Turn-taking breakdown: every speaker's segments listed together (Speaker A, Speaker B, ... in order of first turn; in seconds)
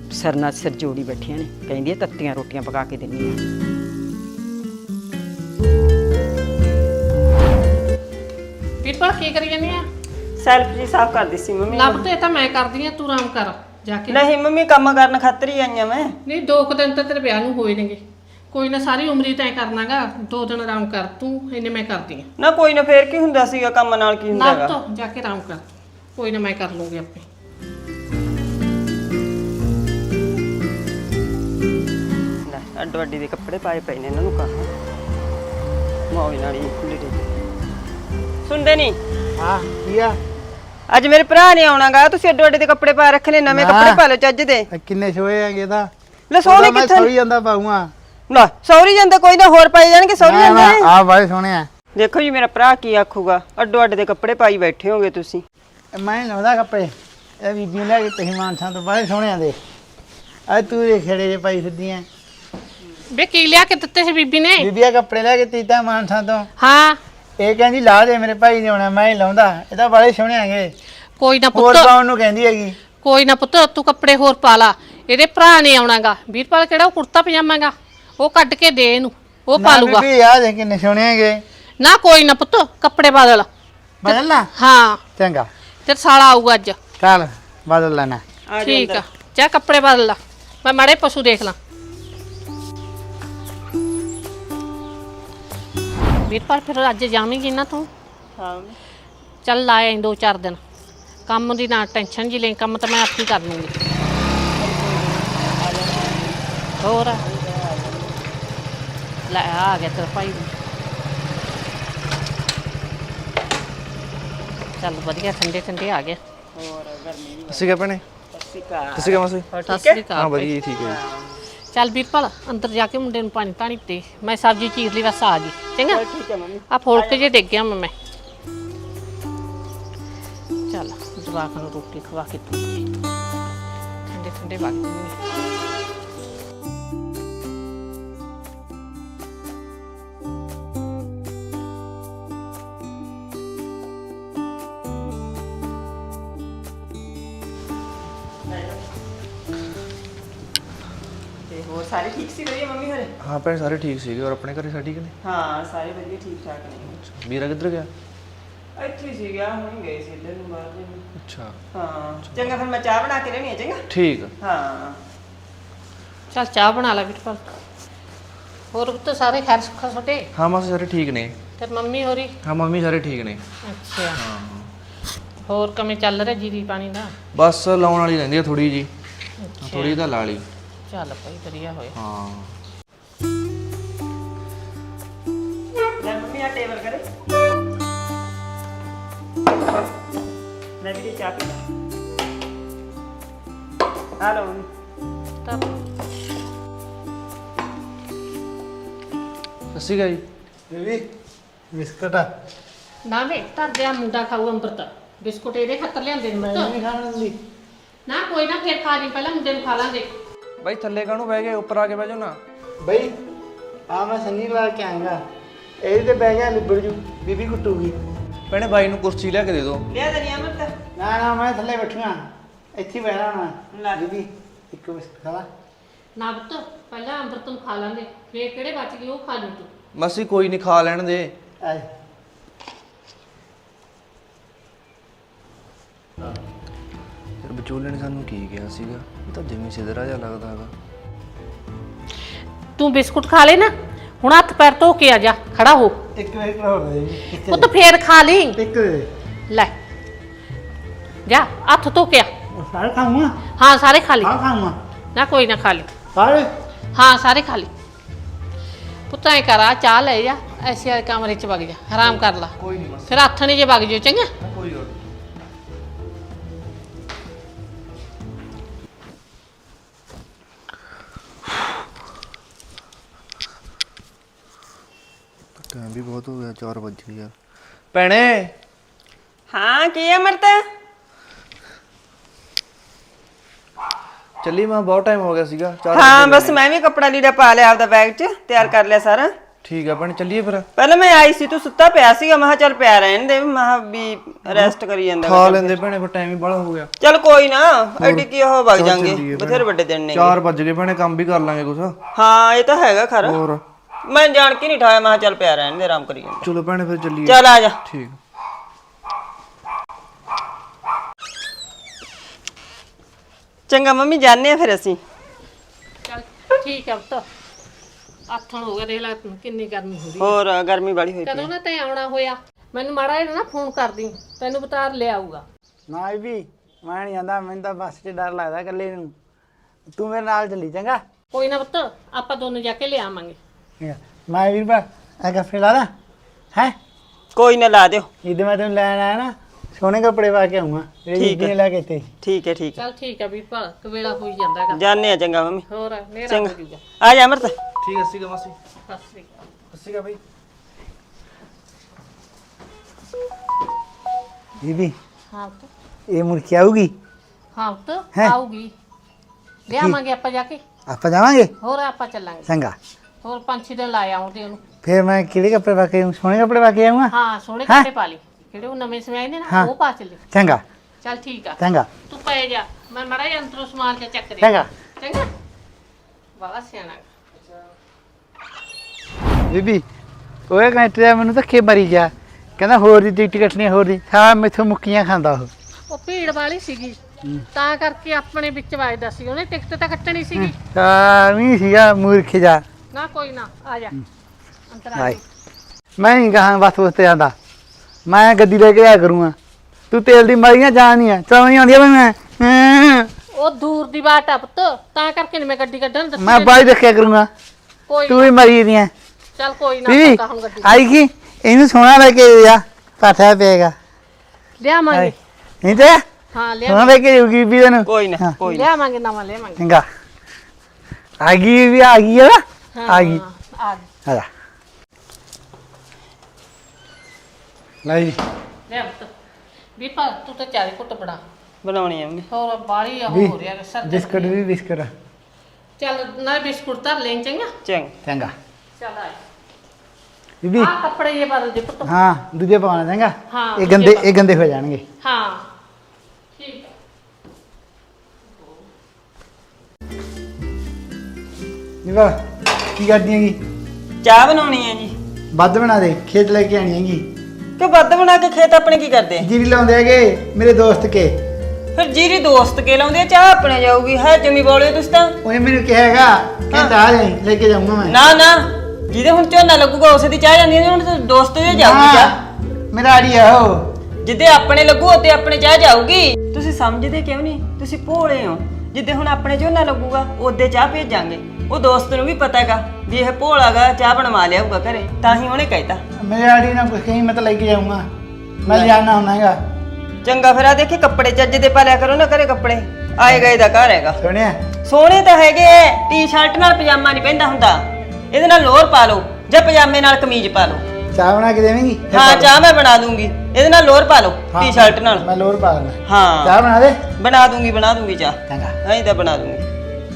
Speaker A: 0.1-3.4
Speaker B: 8.8-9.8, 11.7-14.2, 16.2-22.3, 24.3-25.6, 26.1-27.2, 63.1-64.7, 66.6-67.0, 71.2-71.9, 73.0-80.1, 81.8-83.5, 84.1-85.0, 85.8-86.8, 88.6-91.5, 96.2-97.9, 99.4-100.6, 101.3-103.7, 106.8-107.2, 109.3-110.5, 114.8-116.2, 119.7-120.5, 121.7-126.0, 126.7-127.9, 130.7-132.9, 134.1-135.2, 166.3-167.4, 168.7-170.3, 171.6-172.3, 173.6-174.2, 175.4-177.2, 179.4-180.0, 180.9-181.9, 195.4-195.7, 203.1-206.7, 208.1-210.1, 226.2-229.7, 242.8-246.0, 247.4-248.6, 251.2-252.3, 253.6-254.3, 255.1-255.9, 256.9-257.7, 259.1-262.5, 263.1-264.3, 316.1-317.2, 318.3-320.3, 321.2-325.4, 331.3-333.4, 342.8-344.8, 345.7-346.8, 348.9-349.3, 355.3-355.7, 357.5-358.7, 359.7-360.6, 361.6-362.5, 363.2-364.6, 367.1-370.2, 371.0-375.3, 376.4-377.1, 385.9-387.0, 387.5-390.5, 392.9-394.0, 394.7-395.2, 403.3-406.7, 407.9-408.3, 409.4-410.8, 414.6-415.1, 416.3-416.9, 418.4-419.6, 422.7-423.9, 428.7-429.1, 429.8-431.2, 432.3-434.4, 435.8-437.5, 438.8-439.2, 440.6-441.9, 443.3-444.1, 445.0-445.5, 446.4-446.7, 448.4-448.6
Speaker C: 10.4-12.1, 14.1-16.2, 22.4-24.8, 32.5-34.7, 36.1-37.2, 38.5-39.0, 40.9-44.7, 46.3-47.1, 48.3-50.9, 52.0-55.4, 88.5-89.0, 98.4-98.8, 104.5-106.4, 107.2-108.2, 116.5-117.8, 118.3-120.0, 120.8-121.4, 125.9-127.3, 148.5-148.8, 151.5-153.1, 155.2-157.0, 158.8-161.1, 161.7-163.8, 164.4-165.0, 186.0-187.0, 190.8-191.6, 194.2-194.7, 219.9-220.7, 223.7-224.0, 279.5-280.6, 285.9-289.3, 290.8-295.8, 297.0-300.4, 302.1-303.4, 304.1-306.5, 307.2-307.8, 313.7-315.0, 320.2-321.5, 337.3-338.1, 341.1-341.5, 342.2-342.8, 344.7-345.6, 346.3-347.5, 417.9-418.7, 431.6-432.3, 437.6-437.9, 454.0-454.9, 457.6-459.3, 461.8-465.2, 467.8-472.1, 474.0-485.8, 488.5-488.7, 490.0-494.0, 494.6-500.6, 501.9-505.1, 505.9-506.4, 507.0-509.4
Speaker D: 39.4-40.2, 43.5-44.0, 44.7-45.9, 46.4-47.9, 50.2-51.7, 55.9-59.6, 60.5-62.0, 64.6-66.5, 67.4-70.7, 71.5-72.8, 79.6-81.4, 84.0-84.5, 85.2-85.5, 87.0-88.2, 200.7-201.0, 201.7-202.3, 206.4-207.3, 212.8-213.1, 213.9-215.2, 215.8-218.0, 220.9-222.2, 222.8-225.4, 246.2-247.7, 248.6-249.1, 252.5-253.4, 254.2-254.8, 256.1-256.5, 325.9-329.1, 329.9-331.0, 333.8-335.9, 338.2-342.1, 354.6-354.9, 356.1-356.9, 360.9-361.5, 362.5-362.8, 364.8-367.1, 370.3-370.6, 371.6-371.9, 374.4-374.7, 379.5-379.8, 380.5-385.5, 390.3-392.6, 396.0-397.3, 398.1-399.3, 399.9-403.1, 406.2-407.3, 408.1-408.9, 409.9-413.7, 415.6-416.0, 416.7-418.3, 419.6-419.8, 421.2-423.2, 427.8-428.2, 433.1-434.9, 438.0-438.3, 440.4-440.7, 441.8-444.8, 451.8-452.2, 452.7-453.4, 455.3-457.1, 459.2-461.1, 465.2-468.0, 471.5-472.2, 472.7-473.7, 486.0-487.9, 488.4-489.4, 494.0-494.4, 500.9-502.4, 504.3-506.8, 508.3-508.6
Speaker E: 117.5-118.0, 119.0-119.5, 120.1-121.0, 153.2-155.1, 157.1-157.9, 161.2-161.6, 163.9-164.3, 170.3-171.3, 172.4-173.4, 174.1-174.7, 177.3-178.9, 179.6-180.4, 181.9-182.5, 199.7-200.2, 210.6-212.3, 218.5-219.8, 229.9-231.3, 237.4-240.7, 262.1-263.2, 264.4-264.9, 275.6-277.3, 277.9-278.5, 284.4-286.6, 289.6-290.7, 294.5-296.9, 298.0-302.0, 303.2-303.6, 306.4-308.2, 347.8-348.5, 349.7-350.2